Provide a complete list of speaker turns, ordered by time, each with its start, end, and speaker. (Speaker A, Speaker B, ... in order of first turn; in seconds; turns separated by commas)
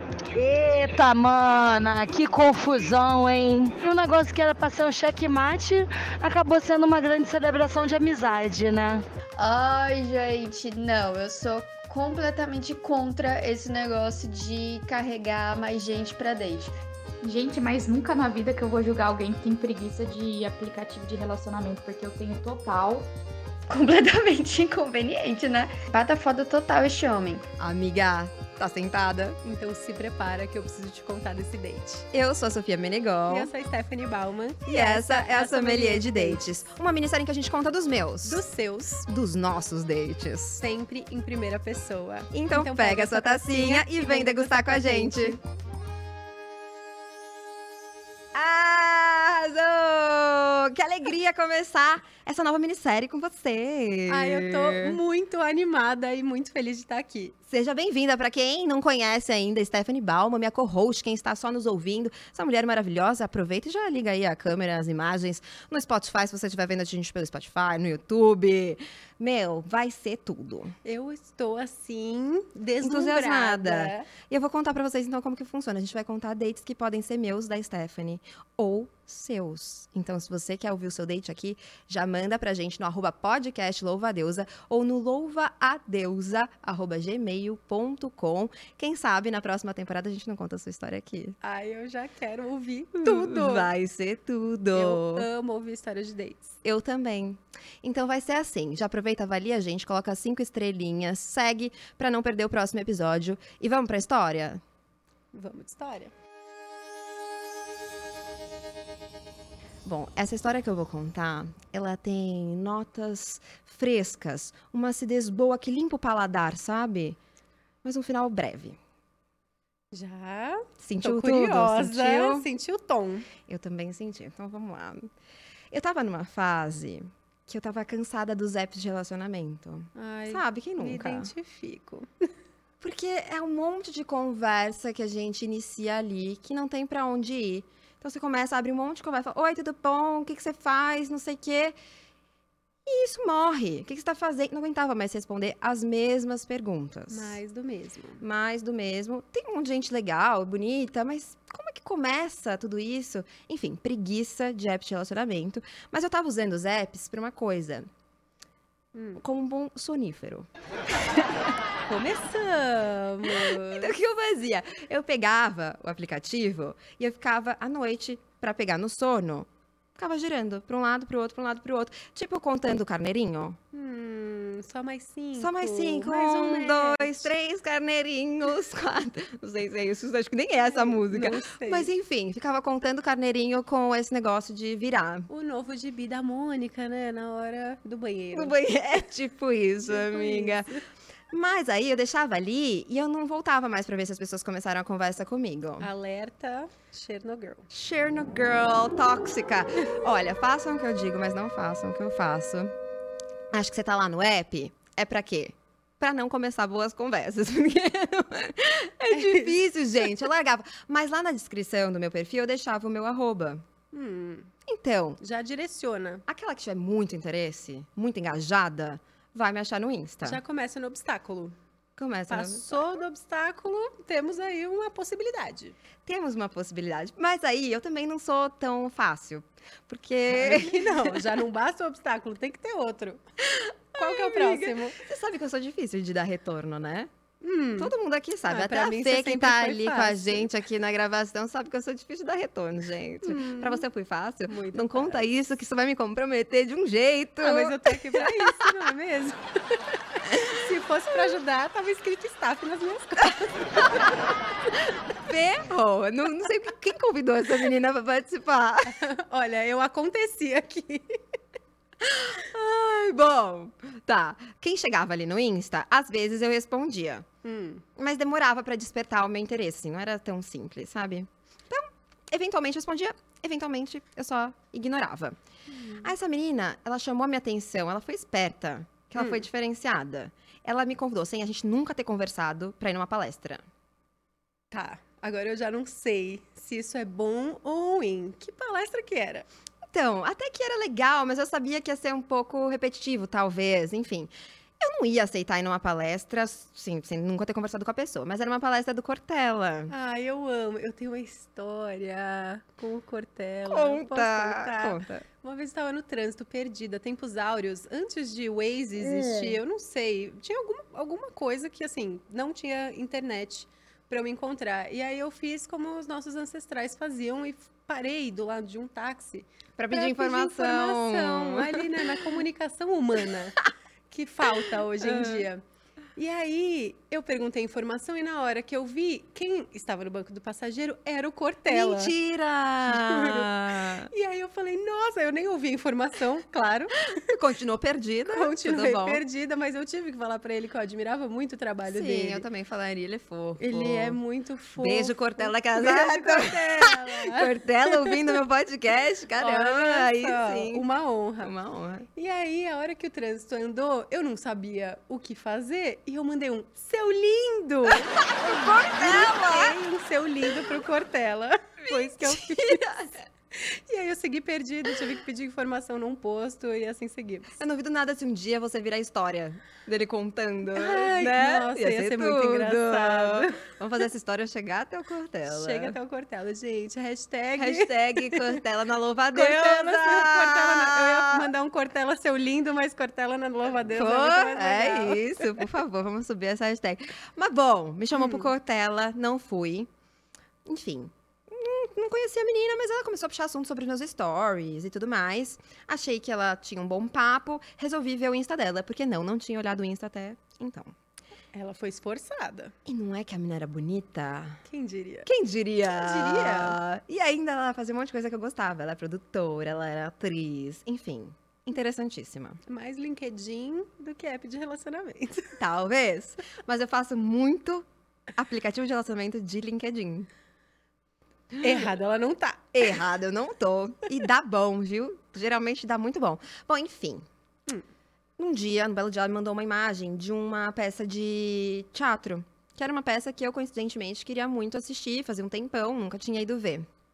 Speaker A: 0.4-8.9, Speaker B: 9.4-16.7, Speaker C: 17.2-23.1, Speaker B: 23.7-27.4, Speaker D: 27.6-29.4, Speaker E: 29.4-32.1, Speaker D: 32.1-33.5, Speaker E: 33.3-36.6, Speaker D: 34.6-38.5, Speaker E: 38.2-39.1, Speaker D: 39.1-40.6, Speaker E: 40.6-45.4, Speaker D: 42.3-45.4, Speaker D: 48.3-55.0, Speaker E: 54.1-57.3, Speaker D: 57.5-70.7, Speaker E: 70.8-74.1, Speaker D: 72.8-91.3, Speaker E: 91.4-93.7, Speaker D: 93.0-95.3, Speaker E: 94.7-96.5, Speaker D: 96.6-104.6, Speaker E: 105.3-106.1, Speaker D: 109.8-117.2, Speaker D: 117.8-118.8, Speaker E: 119.9-123.3, Speaker D: 120.8-122.5, Speaker D: 123.5-125.1, Speaker D: 125.7-131.3, Speaker E: 129.9-132.1, Speaker D: 132.8-141.7, Speaker D: 142.8-147.4, Speaker E: 147.1-148.2, Speaker D: 148.2-157.9, Speaker E: 158.9-159.2, Speaker D: 159.2-160.5, Speaker E: 161.8-163.9, Speaker D: 163.3-173.6, Speaker E: 173.7-177.3, Speaker D: 175.3-185.3, Speaker E: 180.6-181.9, Speaker E: 185.3-188.6, Speaker D: 188.3-190.8, Speaker E: 189.9-190.8, Speaker D: 191.3-195.9, Speaker E: 195.8-197.7, Speaker D: 197.7-202.7, Speaker D: 203.5-213.6, Speaker E: 209.1-210.1, Speaker E: 213.9-214.5, Speaker D: 214.7-215.2, Speaker E: 215.2-216.2, Speaker D: 216.3-220.4, Speaker E: 220.2-221.5, Speaker D: 222.0-222.8, Speaker E: 222.3-225.8, Speaker D: 226.0-231.3, Speaker E: 230.3-233.2, Speaker D: 233.4-237.1, Speaker E: 233.9-235.0, Speaker E: 237.4-237.9, Speaker D: 237.8-248.7, Speaker E: 238.5-240.5, Speaker E: 243.2-243.8, Speaker E: 244.5-245.3, Speaker E: 247.4-249.4, Speaker E: 250.2-253.8, Speaker D: 255.2-259.1, Speaker E: 258.9-261.2, Speaker D: 262.0-267.2, Speaker E: 267.4-267.8, Speaker D: 267.9-275.4, Speaker E: 275.8-276.1, Speaker D: 276.0-283.6, Speaker E: 279.2-279.4, Speaker E: 284.7-289.5, Speaker D: 289.9-299.9, Speaker E: 299.9-325.6, Speaker D: 303.6-305.2, Speaker D: 308.9-309.6, Speaker D: 319.8-322.2, Speaker D: 324.5-325.5, Speaker E: 326.1-332.1, Speaker D: 331.7-334.1, Speaker E: 332.9-337.2, Speaker D: 337.3-339.2, Speaker E: 338.3-342.4, Speaker D: 341.9-344.2, Speaker E: 343.6-348.3, Speaker D: 344.8-350.8, Speaker E: 349.4-351.5, Speaker D: 351.4-352.1, Speaker E: 352.1-367.5, Speaker D: 357.9-359.8, Speaker D: 361.8-363.1, Speaker D: 367.6-376.0, Speaker E: 370.7-373.6, Speaker E: 375.5-378.6, Speaker D: 377.6-381.5, Speaker E: 379.3-385.6, Speaker D: 383.8-389.9, Speaker E: 388.1-388.5, Speaker D: 390.6-400.9, Speaker E: 401.5-402.7, Speaker D: 402.9-404.6, Speaker E: 404.6-405.3, Speaker D: 405.2-412.6, Speaker E: 405.8-406.8, Speaker E: 412.6-415.6, Speaker D: 415.6-417.8, Speaker D: 418.4-420.3, Speaker E: 421.6-423.0, Speaker D: 422.7-427.2, Speaker D: 428.4-436.9